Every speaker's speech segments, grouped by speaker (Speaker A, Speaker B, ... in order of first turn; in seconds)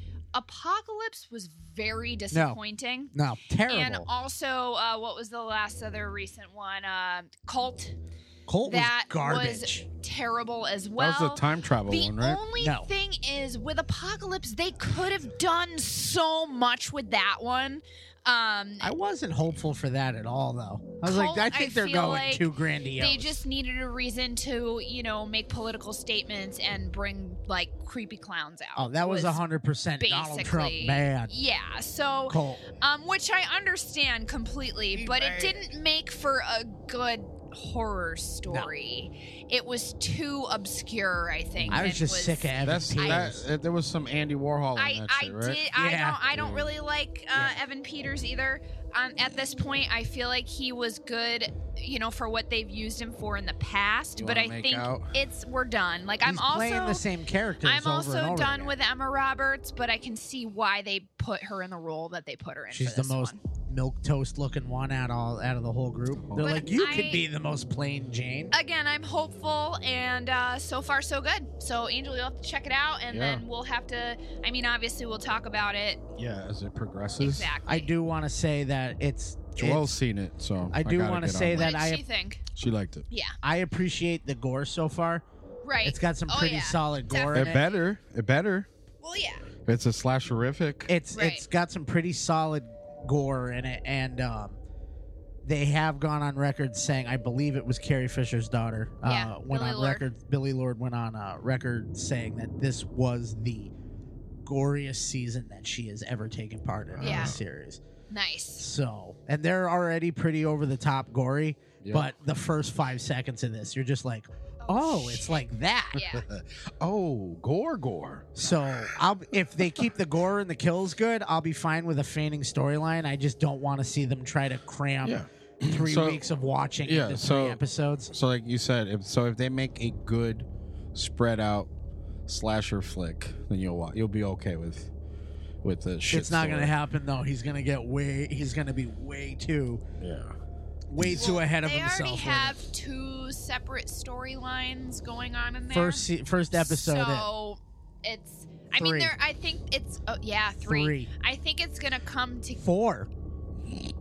Speaker A: 0.3-3.1, 3.7-8.0, 8.7-18.9, 21.0-29.4, 30.0-43.3, 44.8-57.0, 57.6-63.4, 66.4-67.3, 68.5-76.0, 77.2-77.9, 81.6-82.4, 85.6-87.8, 89.0-89.4, 91.1-91.4, 99.0-100.0, 107.0-107.3, 108.1-108.7, 114.6-116.2, 141.0-152.6
Speaker B: 2.3-2.6, 3.1-4.1, 8.5-9.8, 12.6-12.9, 18.8-23.4, 28.8-31.3, 32.3-32.6, 41.7-43.4, 45.7-46.2, 56.2-58.7, 62.7-68.5, 77.7-79.9, 80.7-82.0, 83.4-85.2, 85.8-87.6, 90.9-94.6, 95.4-103.7, 104.5-107.8, 108.6-116.0, 118.4-128.1, 136.1-139.8, 140.9-142.6, 145.7-147.3, 148.7-149.2, 150.7-151.1, 152.6-153.1
Speaker C: 11.0-12.4, 34.9-35.7, 41.6-41.9, 42.6-45.6, 46.3-46.7, 54.2-55.1, 66.3-66.9, 73.1-73.4, 76.2-77.5, 79.6-81.7, 82.5-83.1, 87.3-88.7, 89.7-90.9, 107.0-107.4, 111.8-112.1, 116.1-118.9, 125.0-126.2, 126.8-127.6, 128.1-131.7, 132.3-134.9, 135.6-136.7, 140.0-140.4, 141.0-141.3